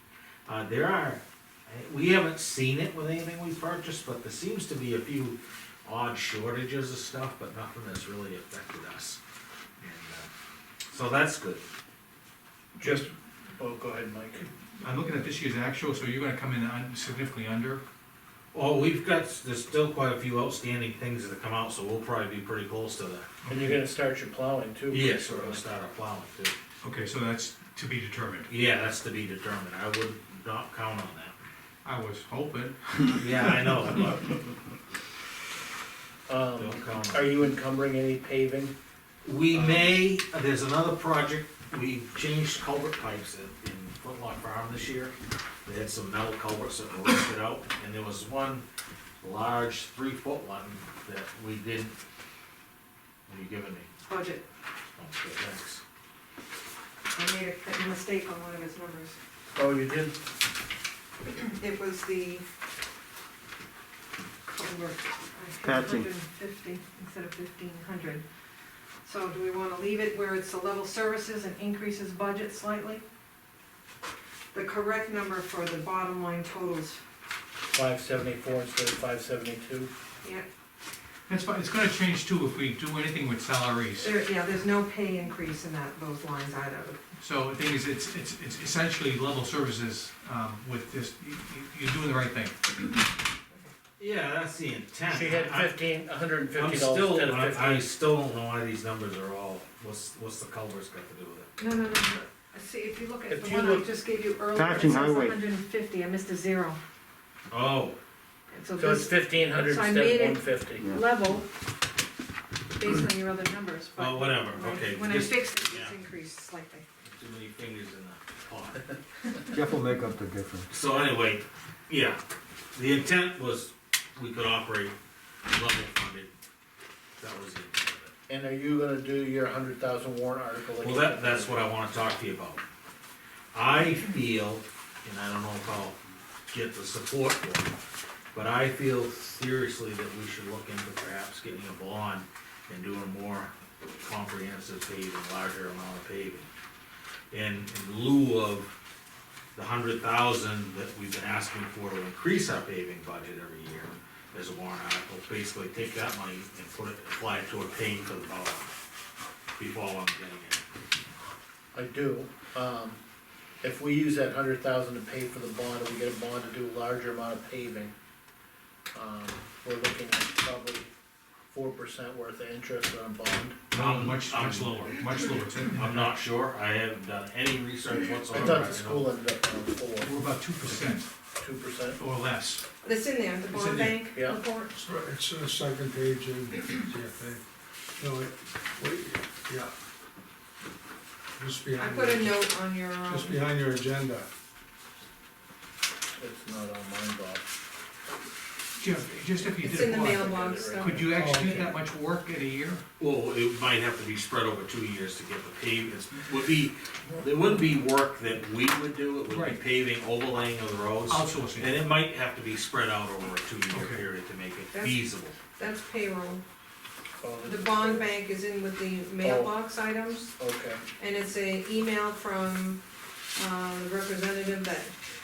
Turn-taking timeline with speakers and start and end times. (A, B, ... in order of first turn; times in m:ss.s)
0:00.5-0:09.2 A
0:09.8-0:10.3 A
0:10.9-0:11.6 A
0:12.8-0:14.5 B
0:14.8-0:17.8 C
0:18.5-0:23.3 A
0:23.4-0:23.7 C
0:23.5-0:25.6 B
0:24.9-0:26.6 A
0:26.8-0:28.5 C
0:28.5-0:31.4 A
0:31.8-0:33.3 C
0:33.2-0:34.4 A
0:36.3-0:38.7 B
0:36.6-0:37.3 A
0:39.2-0:45.1 A
0:39.5-0:39.9 B
0:45.6-0:48.6 A
0:49.2-0:52.0 A
0:53.3-0:53.9 A
0:54.1-0:54.4 D
0:55.0-0:55.8 A
0:57.1-0:59.2 D
0:59.5-1:00.2 B
1:01.2-1:02.4 D
1:04.5-1:08.2 D
1:05.6-1:06.1 E
1:09.0-1:13.0 D
1:14.5-1:17.0 D
1:17.7-1:19.9 B
1:21.3-1:24.1 C
1:24.0-1:27.0 D
1:27.2-1:32.9 C
1:34.0-1:35.7 A
1:35.1-1:37.8 B
1:36.6-1:41.5 A
1:41.6-1:46.8 D
1:43.3-1:43.9 B
1:44.6-1:45.4 E
1:47.5-1:48.0 A
1:48.5-1:51.5 D
1:48.8-1:50.9 B
1:52.7-1:56.9 D
1:54.0-1:56.0 A
1:57.0-1:58.8 A
1:59.5-2:00.7 E
2:00.7-2:02.2 A
2:02.7-2:05.0 A
2:05.5-2:06.3 A
2:07.2-2:08.1 A
2:08.3-2:11.7 B
2:10.8-2:12.6 A
2:13.5-2:16.0 A
2:16.5-2:17.7 A
2:18.4-2:26.5 A
2:27.3-2:28.7 A
2:29.6-2:38.7 A
2:39.6-2:40.6 A
2:41.7-2:43.0 B
2:43.6-2:47.9 B
2:48.9-2:50.9 B
2:51.5-2:53.6 B
2:53.7-2:56.1 C
2:53.7-2:55.1 A
2:55.7-2:59.1 A
2:58.3-3:00.1 B
3:00.0-3:01.1 C
3:01.4-3:02.0 B
3:02.0-3:02.6 C
3:02.8-3:04.7 D
3:03.5-3:04.0 C
3:04.7-3:07.4 F
3:08.0-3:09.7 F
3:11.4-3:12.5 F
3:11.8-3:13.4 D
3:13.0-3:14.3 F
3:16.2-3:17.4 B
3:18.8-3:22.8 C
3:19.6-3:21.7 D
3:19.8-3:21.2 B
3:21.1-3:21.6 F
3:23.0-3:35.4 A
3:29.3-3:29.6 C
3:31.1-3:31.8 C
3:33.7-3:34.0 C
3:34.7-3:36.4 D
3:37.2-3:38.1 B
3:37.4-3:40.4 D
3:39.2-3:39.6 B
3:40.4-3:40.8 B
3:41.0-3:42.8 D
3:43.4-3:44.9 D